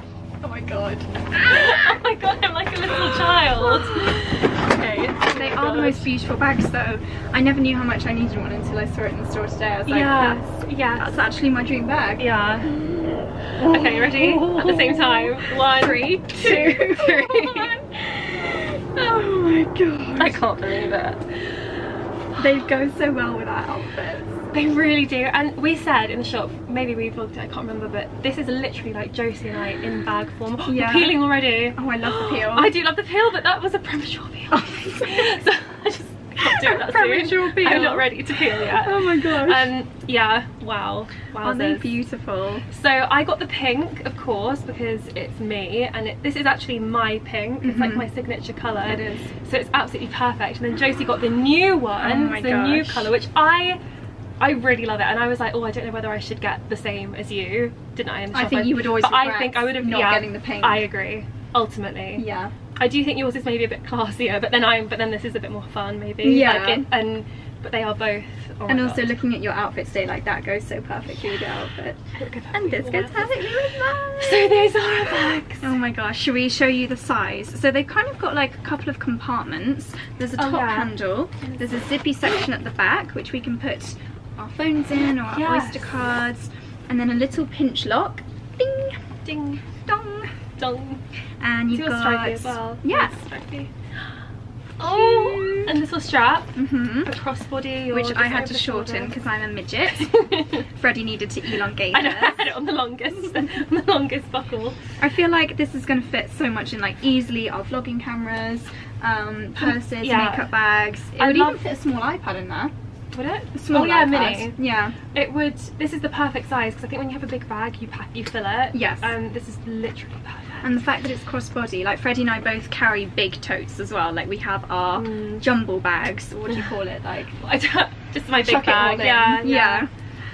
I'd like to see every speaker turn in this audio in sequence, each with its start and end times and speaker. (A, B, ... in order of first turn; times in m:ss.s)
0:00.4-0:02.0 A
0:01.3-0:06.1 B
0:03.0-0:04.2 A
0:05.2-0:20.4 A
0:09.8-0:11.2 B
0:12.2-0:12.7 B
0:13.6-0:17.8 B
0:20.2-0:21.2 B
0:22.4-0:24.3 A
0:24.5-0:42.0 B
0:30.6-0:32.7 A
0:34.5-0:35.4 A
0:36.4-0:39.7 A
0:41.4-0:42.6 A
0:42.7-0:53.8 B
0:47.6-0:48.1 A
0:48.9-0:49.3 A
0:52.0-0:53.1 A
0:54.4-1:09.2 B
0:58.3-1:00.9 A
1:02.2-1:02.5 A
1:06.2-1:06.9 A
1:08.7-1:12.0 A
1:12.2-1:15.7 B
1:12.5-1:29.0 A
1:20.4-1:21.8 B
1:25.3-1:25.9 B
1:29.2-1:29.6 B
1:29.8-1:30.3 A
1:30.6-1:31.0 B
1:31.4-1:33.2 A
1:31.7-1:33.7 B
1:34.8-1:39.1 B
1:34.8-1:35.8 A
1:36.5-1:37.1 A
1:37.9-1:42.4 A
1:39.9-1:40.6 B
1:41.9-1:44.8 B
1:45.0-1:52.7 A
1:49.6-1:50.6 B
1:51.2-1:51.6 B
1:53.1-1:54.6 B
1:53.5-1:55.0 A
1:55.1-2:00.7 B
1:58.7-1:59.1 A
2:00.6-2:07.4 A
2:04.9-2:05.5 B
2:07.4-2:09.9 B
2:08.4-2:09.9 A